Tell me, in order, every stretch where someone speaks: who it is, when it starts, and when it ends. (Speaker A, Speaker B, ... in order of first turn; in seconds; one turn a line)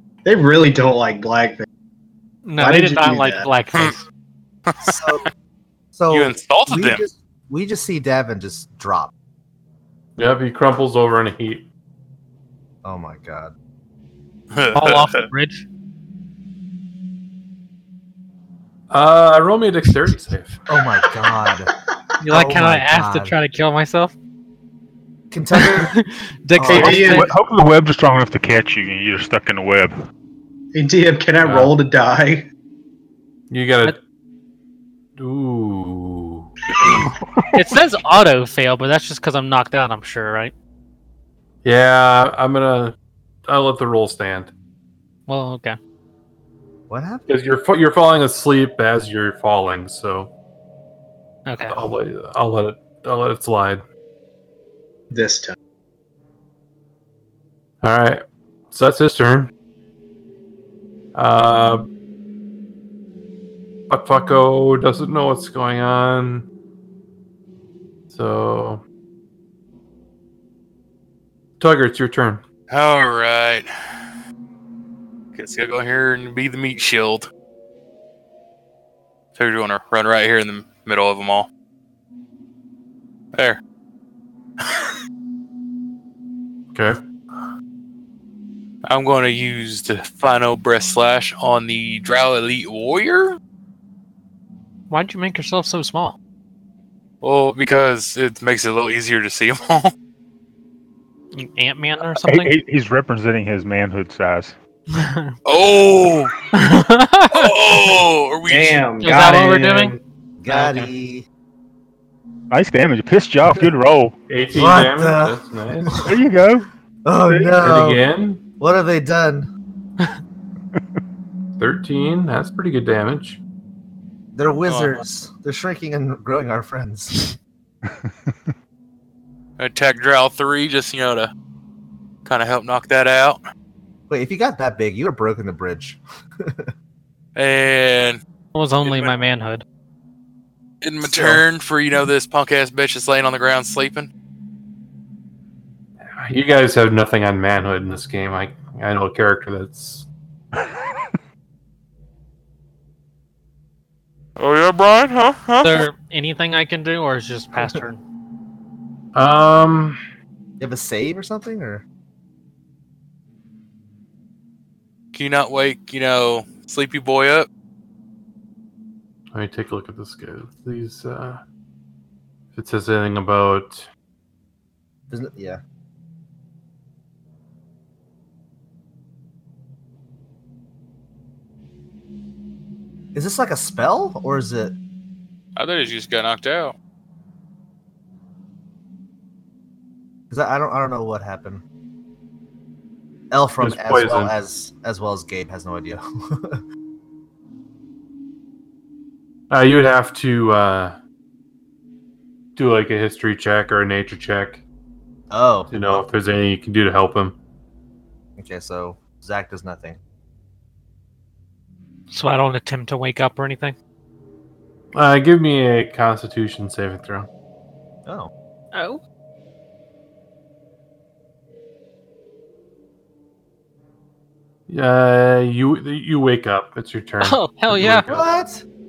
Speaker A: 0.2-1.7
Speaker B: 2.4-4.1
Speaker A: 2.6-3.5
Speaker C: 4.7-5.0
Speaker D: 4.8-5.3
Speaker D: 5.9-9.1
Speaker C: 6.1-7.0
Speaker E: 10.2-11.7
Speaker D: 12.8-13.5
Speaker C: 14.5-15.2
Speaker B: 14.7-15.6
Speaker E: 18.9-20.6
Speaker D: 20.7-21.7
Speaker B: 22.2-24.1
Speaker D: 22.3-23.3
Speaker D: 25.3-25.9
Speaker B: 25.5-27.3
Speaker D: 26.5-27.1
Speaker F: 26.7-29.9
Speaker A: 26.8-27.3
Speaker A: 30.7-32.5
Speaker E: 31.4-31.7
Speaker E: 33.5-34.0
Speaker E: 35.2-36.5
Speaker B: 37.5-40.5
Speaker E: 41.6-42.9
Speaker E: 43.5-44.5
Speaker B: 45.3-45.8
Speaker D: 46.9-47.3
Speaker E: 47.3-50.3
Speaker B: 51.5-51.8
Speaker E: 51.7-53.8
Speaker A: 55.1-55.5
Speaker E: 57.8-59.5
Speaker E: 61.1-61.8
Speaker E: 63.9-66.5
Speaker E: 68.1-68.8
Speaker E: 71.6-72.4
Speaker C: 72.7-73.7
Speaker C: 75.3-77.3
Speaker C: 79.3-81.5
Speaker C: 83.3-83.6
Speaker E: 86.7-87.0
Speaker C: 88.8-93.4
Speaker B: 94.9-96.2
Speaker C: 97.2-99.9
Speaker B: 101.3-102.5
Speaker F: 102.2-104.6
Speaker B: 104.9-105.3
Speaker C: 105.4-106.3
Speaker B: 106.5-107.5
Speaker C: 107.3-108.9
Speaker A: 108.5-110.0
Speaker B: 109.0-109.9
Speaker D: 110.4-111.3
Speaker B: 110.5-110.9
Speaker F: 112.5-114.2
Speaker E: 114.3-116.0
Speaker D: 114.5-116.0
Speaker F: 115.9-116.7
Speaker D: 117.0-118.0
Speaker F: 117.3-117.6
Speaker E: 117.6-118.4
Speaker D: 118.6-119.5
Speaker E: 121.6-123.4
Speaker D: 124.3-127.2
Speaker C: 124.6-125.0
Speaker F: 127.9-128.5
Speaker C: 129.6-131.3
Speaker C: 132.2-133.4
Speaker D: 134.1-136.7
Speaker C: 137.3-138.2
Speaker B: 138.5-139.6
Speaker C: 138.8-139.1
Speaker C: 140.8-144.1
Speaker D: 141.0-141.4
Speaker E: 146.2-150.1
Speaker C: 154.4-155.8
Speaker B: 155.6-158.0
Speaker D: 157.5-157.8
Speaker E: 159.1-160.0
Speaker D: 160.6-161.8
Speaker C: 165.1-167.5
Speaker E: 169.3-171.4
Speaker E: 172.5-173.9
Speaker D: 175.1-175.6
Speaker D: 183.1-184.8
Speaker C: 185.6-186.8
Speaker D: 190.3-191.6
Speaker D: 193.3-196.6
Speaker E: 193.6-194.3
Speaker E: 199.5-201.0
Speaker E: 202.6-204.6
Speaker D: 205.3-206.1
Speaker E: 205.7-207.4
Speaker D: 208.4-210.0
Speaker B: 212.1-213.8
Speaker E: 214.9-217.3
Speaker D: 218.0-218.3
Speaker B: 218.7-219.0
Speaker E: 224.7-228.2
Speaker B: 227.2-228.1
Speaker D: 228.1-228.6